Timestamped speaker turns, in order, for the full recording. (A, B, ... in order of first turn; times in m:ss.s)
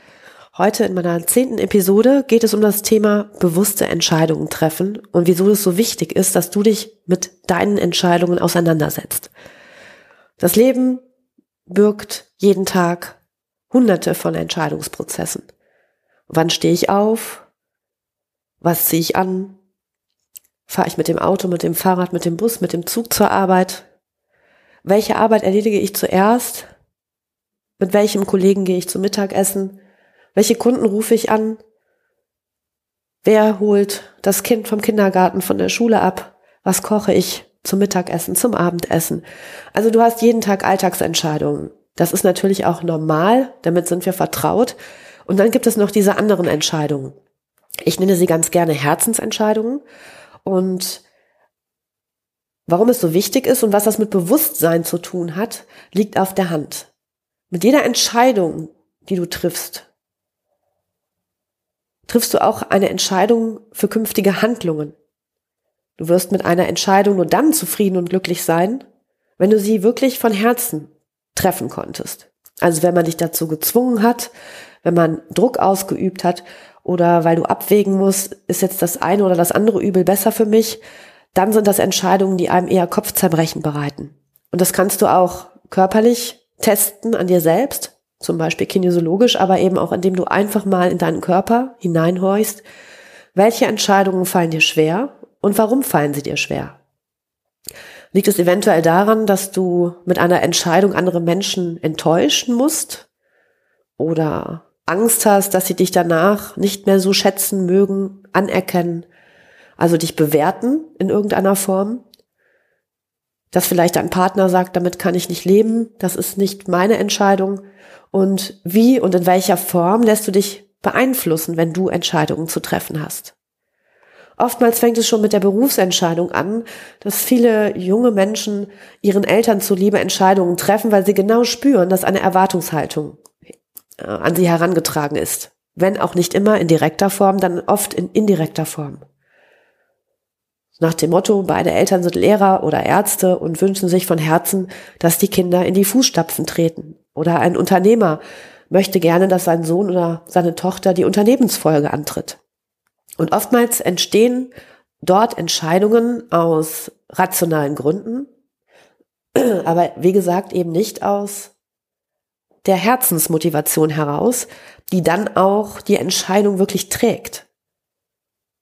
0:00.6-0:09.3 A
0:10.4-0:11.0 A
0:11.7-0:13.2 A
0:13.7-0:15.5 A
0:16.3-0:17.5 A
0:18.6-0:19.6 A
0:20.7-0:23.9 A
0:24.8-0:26.7 A
0:27.8-0:29.8 A
0:30.4-0:31.6 A
0:33.2-0:39.2 A
0:39.8-0:47.2 A
0:47.9-0:49.8 A
0:50.4-0:51.0 A
0:52.7-0:56.9 A
0:57.5-0:59.9 A
1:02.1-1:05.0 A
1:06.0-1:08.8 A
1:09.4-1:14.3 A
1:14.8-1:20.8 A
1:21.3-1:32.6 A
1:33.4-1:36.8 A
1:38.1-1:43.1 A
1:44.0-1:49.1 A
1:49.8-1:52.0 A
1:53.5-2:03.4 A
2:04.4-2:13.2 A
2:14.0-2:19.0 A
2:20.8-2:32.4 A
2:33.2-2:34.5 A
2:35.0-2:38.3 A
2:39.4-2:41.5 A
2:42.6-2:47.5 A